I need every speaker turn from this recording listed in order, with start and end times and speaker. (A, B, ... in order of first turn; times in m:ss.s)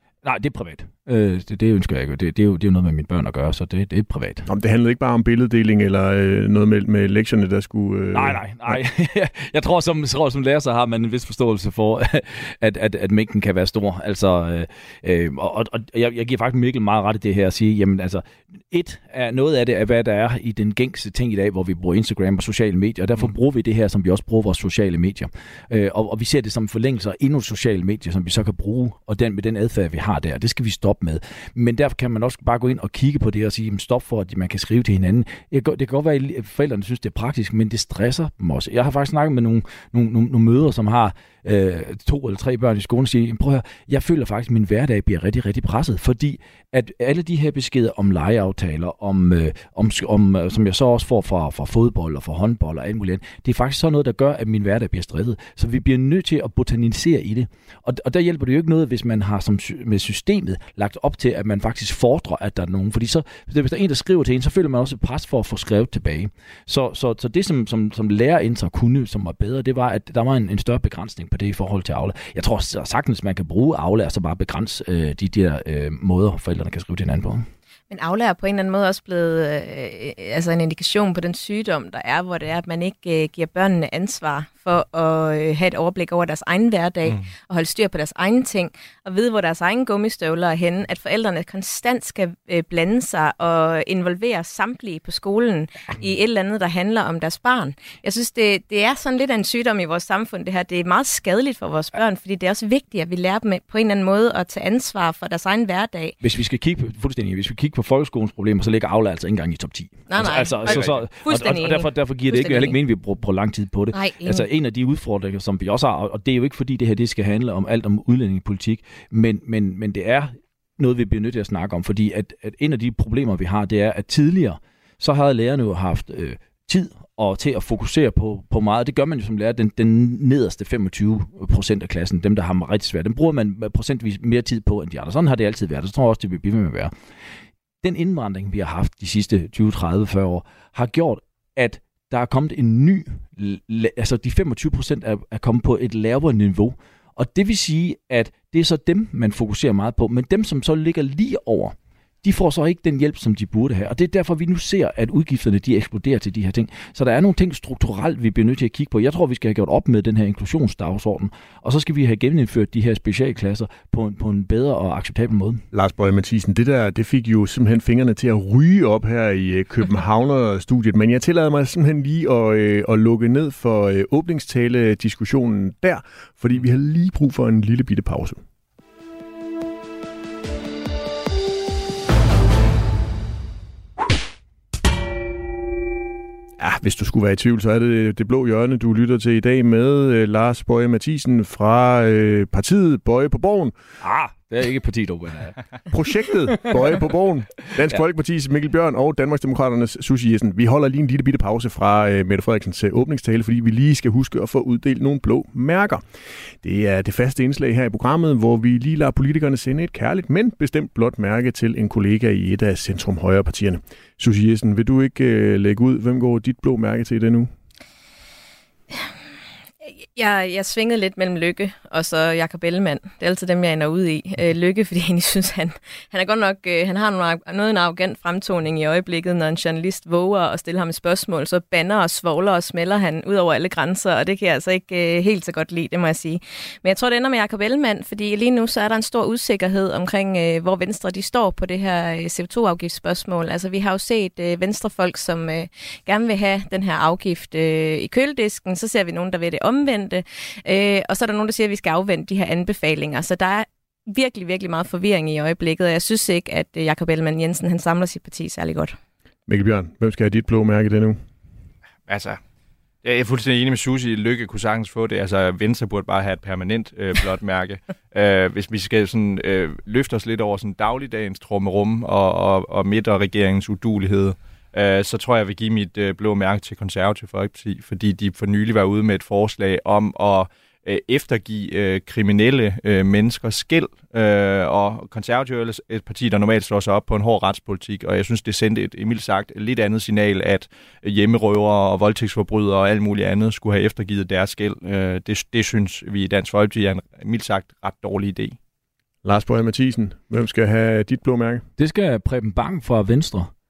0:00.2-0:04.5 A
0:04.4-0:08.7 B
0:08.1-1:17.4 A
1:17.9-1:46.1 C
1:46.2-2:16.9 A
1:50.1-1:52.8 C
1:50.6-1:50.9 D
1:53.9-1:54.4 C
2:17.8-2:45.6 A
2:45.7-2:58.4 B
3:06.6-3:13.7 B
3:14.0-3:15.6 A
3:15.9-3:26.0 B
3:26.6-3:37.5 B
3:39.8-4:19.0 C
4:19.5-4:21.2 B
4:22.1-4:22.4 D
4:23.0-4:58.6 D
4:59.2-5:01.6 B
5:01.8-5:03.5 A